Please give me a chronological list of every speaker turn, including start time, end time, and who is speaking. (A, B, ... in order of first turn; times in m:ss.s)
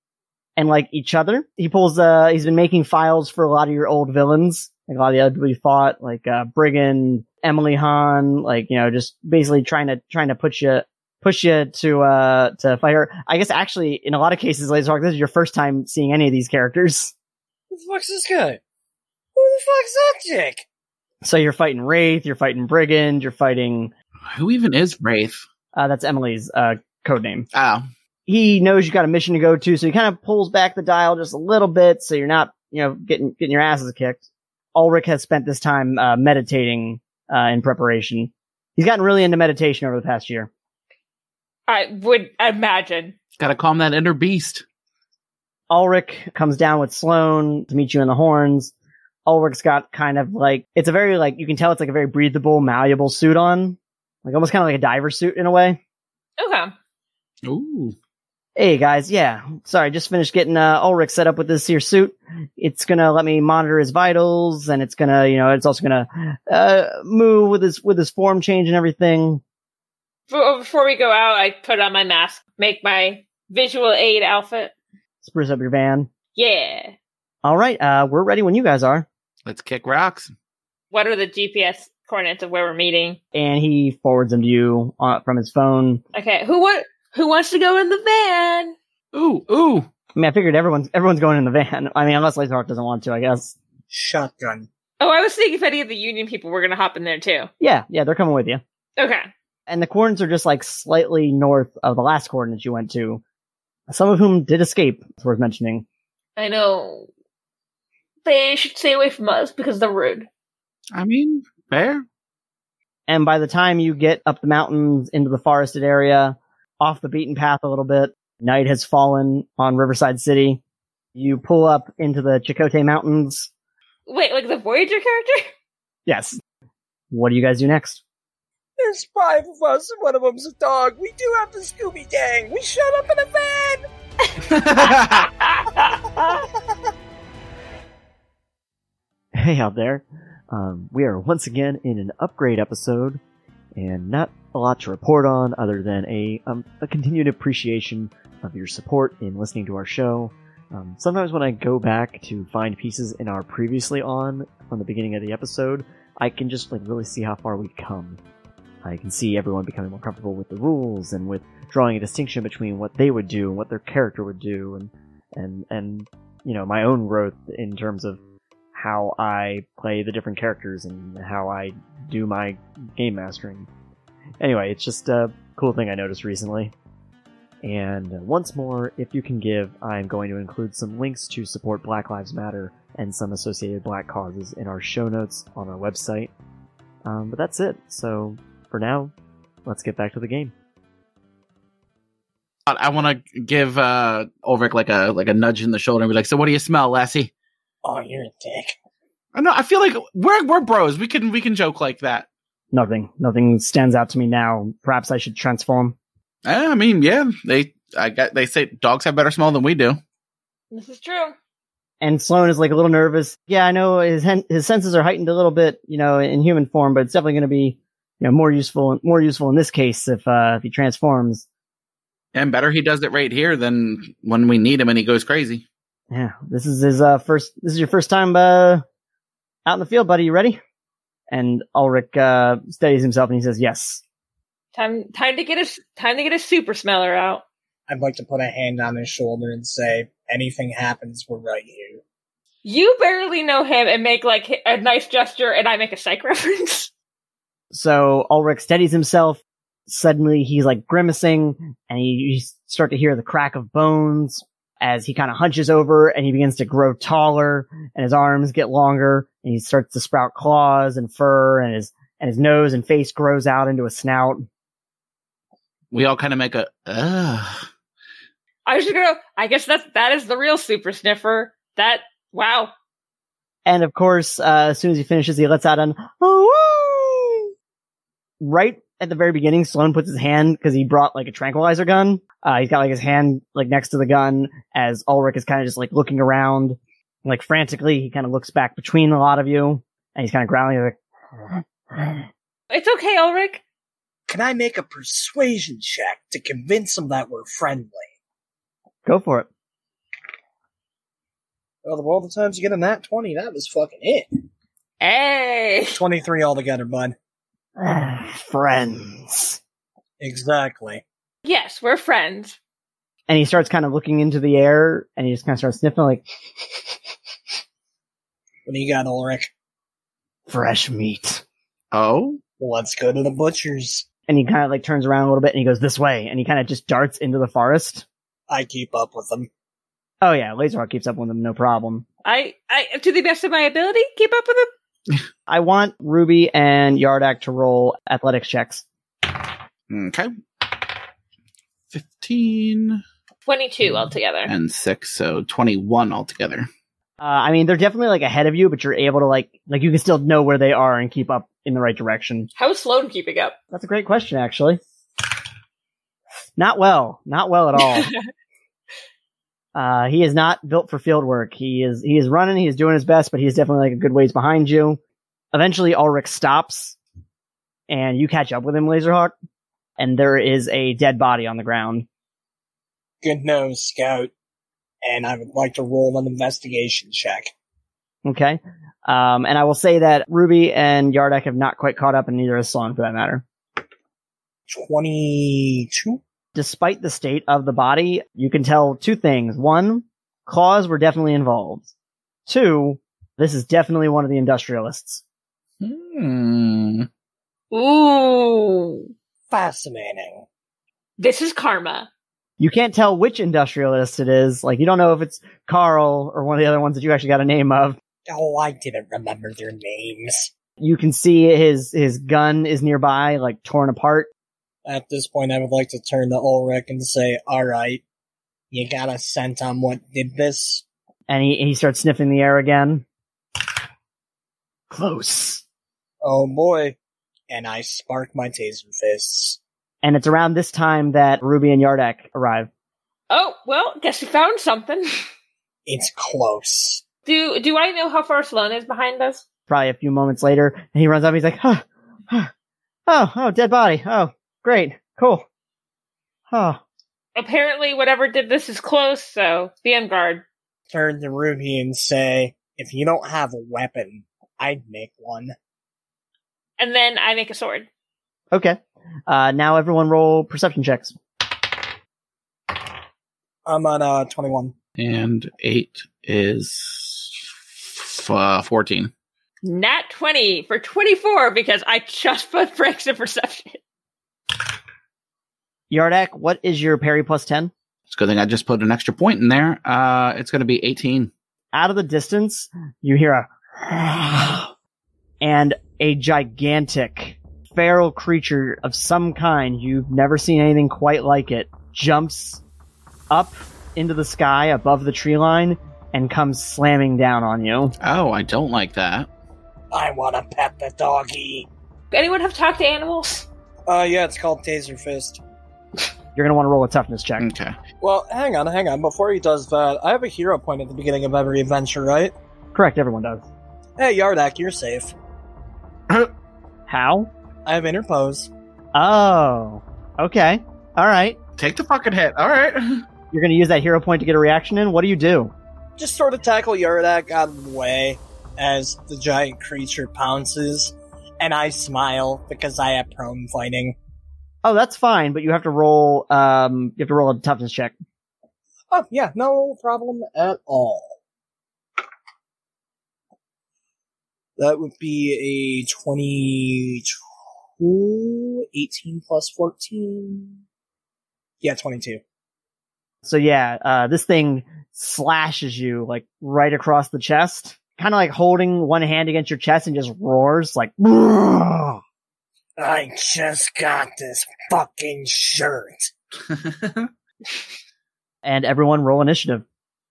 0:00.6-0:17.1 A
0:17.7-0:18.6 B
0:19.3-0:20.6 B
0:21.2-0:23.9 A
0:24.3-0:25.4 C
0:25.7-0:27.5 A
0:27.5-0:27.9 C
0:28.3-0:34.2 A
0:34.7-0:40.5 A
0:41.7-0:43.1 D
0:43.4-0:44.6 C
0:45.7-0:48.7 A
0:49.2-0:55.8 A
0:56.4-0:56.7 D
0:57.4-0:57.9 C
0:58.6-1:09.4 A
1:10.3-1:14.7 D
1:15.2-1:16.1 A
1:16.4-1:16.9 D
1:17.4-1:19.1 A
1:19.4-1:20.3 C
1:20.9-1:23.2 D
1:23.3-1:26.0 A
1:26.1-1:28.7 D
1:29.1-1:29.9 C
1:30.1-1:33.5 A
1:33.9-1:34.7 B
1:35.0-1:37.5 D
1:37.6-1:38.6 A
1:39.0-1:39.3 D
1:39.7-1:43.2 A
1:43.9-1:45.8 A
1:46.4-1:47.1 D
1:48.2-1:50.3 D
1:50.9-1:52.0 C
1:53.1-2:00.6 A
2:01.1-2:03.5 A
2:04.1-2:05.5 D
2:06.0-2:06.4 A
2:07.1-2:08.0 A
2:08.8-2:13.8 B
2:14.4-2:16.4 D
2:14.5-2:15.3 C
2:19.3-2:23.2 E
2:23.8-2:38.2 E
2:38.8-2:48.2 E
2:48.7-2:53.7 E
2:54.4-2:56.7 E
2:57.6-3:06.3 E
3:07.0-3:09.1 E
3:09.6-3:10.5 E
3:12.7-3:17.3 C
3:17.8-3:18.7 B
3:19.3-3:22.3 C
3:22.7-3:26.0 A
3:26.4-3:30.0 C
3:30.7-3:31.3 D
3:32.0-3:41.4 A
3:42.3-3:45.6 C
3:46.1-3:48.8 A
3:49.6-3:50.6 A
3:51.3-3:54.0 A
3:54.7-3:57.4 D
3:57.9-4:02.0 B
4:02.6-4:06.9 D
4:07.7-4:24.4 A
4:25.9-4:27.6 C
4:28.6-4:32.7 D
4:33.6-4:37.5 A
4:38.4-4:52.2 A
4:52.7-4:53.6 D
4:54.3-4:58.1 B
4:59.0-4:59.5 A
5:01.8-5:04.4 B
5:05.0-5:06.0 D
5:05.9-5:07.1 B
5:07.8-5:09.6 A
5:10.2-5:11.0 B
5:11.4-5:12.6 D
5:13.3-5:16.9 A
5:18.6-5:19.5 B
5:20.5-5:21.4 A
5:21.9-5:22.4 C
5:22.6-5:24.0 B
5:24.3-5:28.0 A
5:28.5-5:29.5 B
5:30.2-5:32.0 A
5:32.2-5:34.7 D
5:35.5-5:38.8 A
5:39.9-5:40.8 C
5:41.9-5:43.0 C
5:43.4-5:44.5 D
5:44.5-5:46.7 C
5:47.2-5:52.5 A
5:52.6-5:53.5 D
5:53.7-5:54.8 A
5:56.6-5:58.1 A
5:59.7-6:05.0 A
6:05.5-6:07.0 A
6:07.9-6:09.3 A
6:10.0-6:12.0 A
6:13.2-6:14.3 B
6:15.0-6:17.5 B
6:18.2-6:23.4 A
6:24.7-6:26.2 B
6:26.5-6:31.9 A
6:32.5-6:35.2 A
6:35.8-6:37.1 C
6:37.7-6:39.1 D
6:39.5-6:40.4 B
6:41.2-6:42.1 D
6:42.6-6:48.0 A
6:48.3-6:50.5 B
6:50.8-6:54.3 A
6:54.8-6:58.0 B
6:58.7-7:00.8 B
7:01.3-7:03.0 A
7:04.9-7:05.6 A
7:06.2-7:07.0 B
7:07.5-7:09.6 B
7:10.0-7:12.7 A
7:13.3-7:15.1 D
7:15.9-7:17.0 B
7:17.2-7:19.4 D
7:19.7-7:22.5 A
7:23.1-7:25.4 A
7:26.5-7:26.8 A
7:27.4-7:30.4 D
7:30.9-7:35.5 B
7:36.8-7:37.9 D
7:38.5-7:41.2 A
7:43.6-7:44.7 B
7:45.0-7:49.1 C
7:49.6-7:53.8 D
7:55.9-7:57.7 A
7:58.1-8:01.3 C
8:01.7-8:04.7 A
8:05.4-8:12.6 A
8:13.3-8:18.0 A
8:18.0-8:19.3 C
8:19.9-8:21.7 B
8:22.1-8:23.5 D
8:23.9-8:25.4 B
8:26.4-8:27.4 A
8:27.4-8:27.8 C
8:28.0-8:32.3 B
8:32.7-8:33.4 A
8:34.0-8:35.1 B
8:36.9-8:37.3 A
8:37.6-8:38.5 B
8:38.9-8:41.4 A
8:41.6-8:43.0 C
8:43.3-8:45.5 A
8:46.0-8:54.0 B
8:54.6-8:57.9 A
8:58.9-9:01.2 B
9:04.6-9:07.1 B
9:07.8-9:10.6 B
9:11.6-9:12.2 B
9:13.2-9:22.0 A
9:22.8-9:26.1 B
9:26.5-9:27.1 C
9:28.4-9:29.6 A